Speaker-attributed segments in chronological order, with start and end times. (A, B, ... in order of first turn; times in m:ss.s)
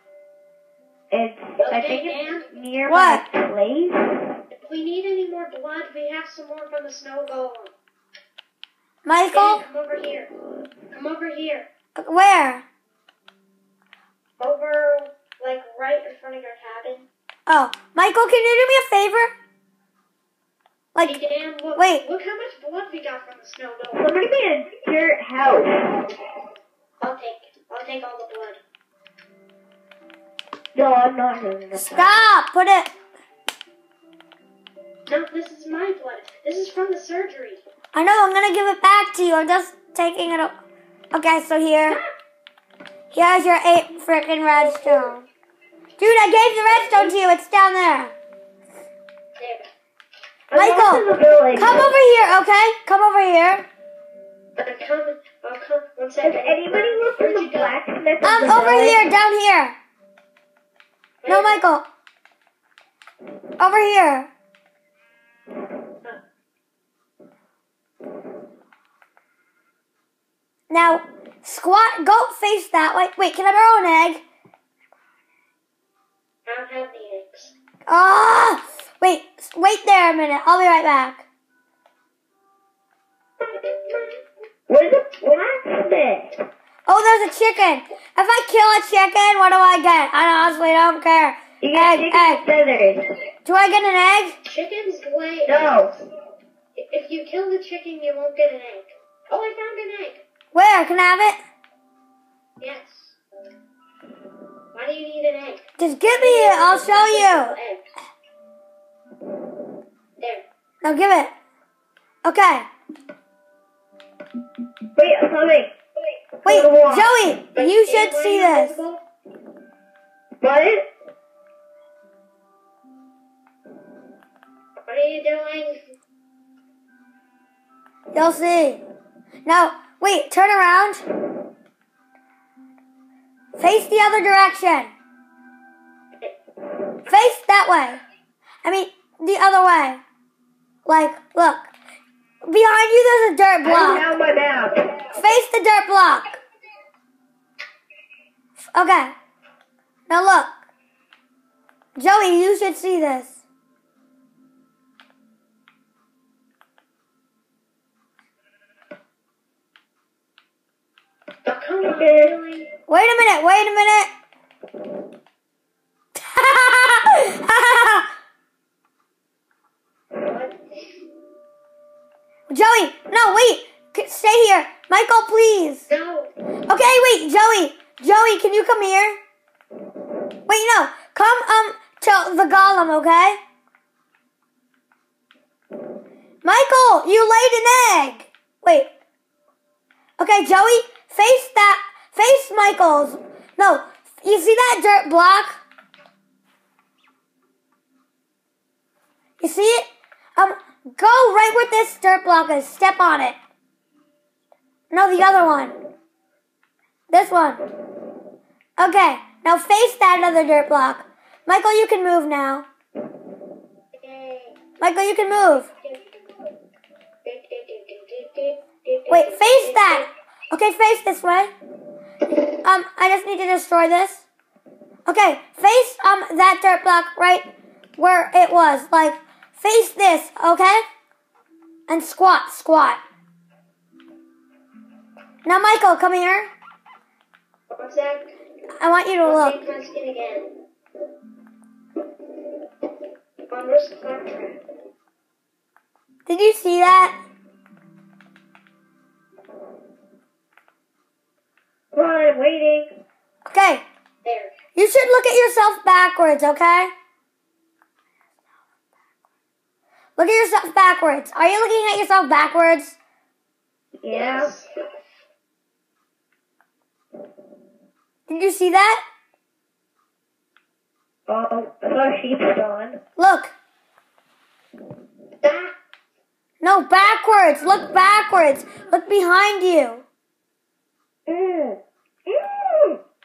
0:01.1-0:04.4 A
0:01.6-0:02.4 B
0:02.8-0:03.2 C
0:04.5-0:07.7 B
0:09.0-0:09.6 C
0:09.3-0:10.3 B
0:10.9-0:11.7 B
0:11.9-0:12.6 C
0:14.4-0:17.1 B
0:17.5-0:19.3 C
0:21.0-0:24.2 B
0:21.8-0:22.0 C
0:23.9-0:26.1 A
0:27.0-0:28.6 B
0:30.7-0:32.1 A
0:31.7-0:32.9 C
0:35.1-0:37.6 B
0:37.9-0:40.5 C
0:41.1-0:42.0 C
0:43.1-0:45.3 C
0:44.7-0:45.1 B
0:46.0-0:48.1 C
0:46.7-0:47.2 B
0:49.4-0:49.6 B
0:50.5-0:51.8 A
0:50.5-0:53.6 C
0:54.6-0:57.7 B
0:56.2-0:59.0 A
0:58.2-0:59.8 C
1:01.2-1:01.6 B
1:01.3-1:01.8 C
1:03.6-1:04.3 C
1:10.7-1:14.2 C
1:16.5-1:17.5 B
1:17.9-1:21.2 C
1:23.4-1:24.2 B
1:24.7-1:26.4 A
1:26.8-1:32.4 C
1:31.6-1:33.0 A
1:33.4-1:34.4 C
1:34.4-1:35.9 B
1:35.4-1:35.9 A
1:36.8-1:40.2 B
1:40.5-1:41.4 C
1:42.6-1:43.2 B
1:44.7-1:47.8 B
1:45.8-1:47.6 C
1:50.2-1:50.4 B
1:50.8-1:51.3 C
1:52.2-1:52.6 C
1:55.0-1:55.7 A
1:56.4-1:57.1 A
1:56.4-1:58.8 C
1:57.5-1:59.0 B
2:00.4-2:00.9 A
2:04.9-2:05.8 B
2:08.1-2:08.8 C
2:09.4-2:11.0 C
2:13.6-2:14.9 C
2:17.0-2:18.0 C
2:18.6-2:20.0 C
2:20.8-2:21.7 C
2:22.4-2:24.0 C
2:23.6-2:25.0 A
2:25.1-2:26.4 C
2:28.7-2:29.1 C
2:30.1-2:30.5 C
2:32.0-2:33.4 C
2:41.4-2:42.7 B
2:41.9-2:42.4 A
2:42.9-2:44.1 C
2:46.2-2:48.1 C
2:50.2-2:50.6 B
2:52.5-2:55.8 C
2:55.9-2:56.3 B
2:56.7-2:59.2 C
3:00.5-3:03.4 C
3:06.4-3:08.9 C
3:10.2-3:15.6 C
3:19.4-3:23.4 C
3:24.9-3:25.8 C
3:27.1-3:27.6 C
3:28.8-3:32.6 C
3:34.0-3:34.6 B
3:34.8-3:35.7 C
3:35.5-3:36.2 B
3:37.2-3:40.1 B
3:39.1-3:41.5 C
3:42.6-3:44.2 C
3:45.0-3:50.8 C
3:51.9-3:53.0 C
3:55.4-3:56.5 C
3:57.7-3:58.3 B
3:58.8-3:59.6 C
3:59.2-4:00.5 B
4:03.5-4:04.6 B
4:06.2-4:07.1 C
4:11.9-4:12.9 A
4:13.4-4:13.8 C
4:14.2-4:14.5 B
4:14.7-4:16.9 C
4:20.2-4:23.0 C
4:24.0-4:24.5 A
4:24.1-4:24.7 B
4:28.3-4:29.0 C
4:31.3-4:33.0 A
4:33.2-4:33.5 C
4:35.4-4:35.7 B
4:36.6-4:40.0 C
4:41.3-4:43.0 A